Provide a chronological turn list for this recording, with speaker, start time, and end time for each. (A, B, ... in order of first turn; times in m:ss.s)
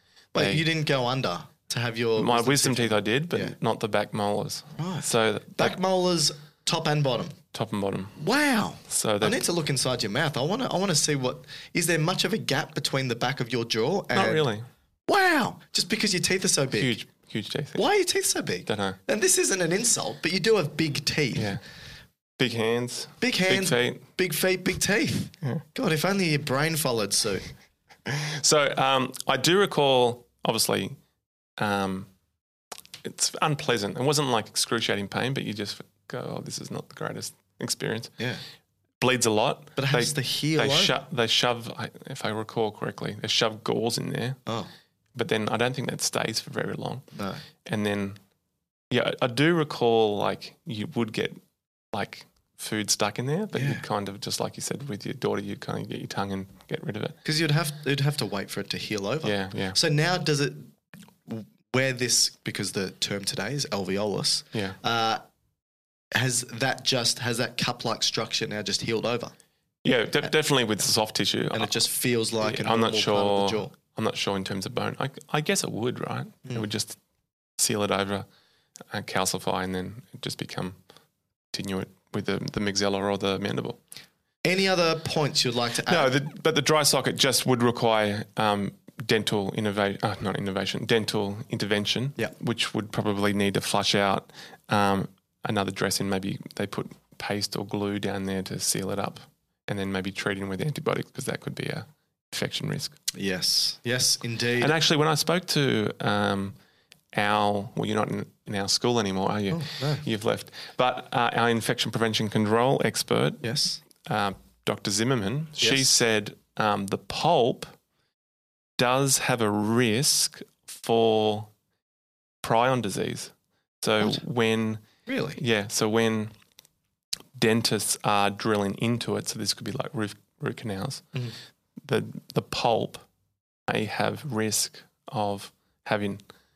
0:00.3-0:03.6 A
0:00.4-0:00.7 B
0:02.2-0:05.8 B
0:04.8-0:07.4 A
0:07.5-0:08.2 B
0:08.2-0:14.5 A
0:08.9-0:09.4 B
0:14.1-0:14.7 B
0:15.1-0:17.0 A
0:16.7-0:17.9 B
0:17.8-0:21.6 A
0:18.6-0:19.0 B
0:21.4-0:21.6 B
0:22.4-0:24.1 B
0:23.2-0:27.5 A
0:28.1-0:31.0 B
0:31.6-0:32.1 B
0:33.0-0:38.2 B
0:39.0-0:44.4 B
0:39.8-0:40.9 A
0:45.2-0:47.1 B
0:47.1-0:47.4 A
0:47.7-0:48.2 B
0:48.9-0:51.4 B
0:51.9-0:57.2 B
0:53.5-0:53.8 A
0:57.2-1:00.7 A
0:59.2-0:59.8 B
1:01.3-1:05.2 A
1:06.1-1:09.3 A
1:09.8-1:17.0 B
1:11.5-1:13.8 A
1:17.6-1:18.2 B
1:18.9-1:20.8 B
1:21.5-1:23.8 B
1:24.4-1:26.1 A
1:25.8-1:43.0 B
1:43.1-1:44.7 A
1:44.6-1:46.6 B
1:47.1-1:53.5 B
1:49.5-1:50.1 A
1:53.4-1:53.8 A
1:54.0-1:57.7 B
1:55.6-1:55.9 A
1:58.8-2:01.5 B
2:02.4-2:04.8 B
2:05.1-2:05.4 A
2:05.4-2:06.3 B
2:07.4-2:11.0 B
2:11.8-2:13.0 B
2:13.7-2:16.2 B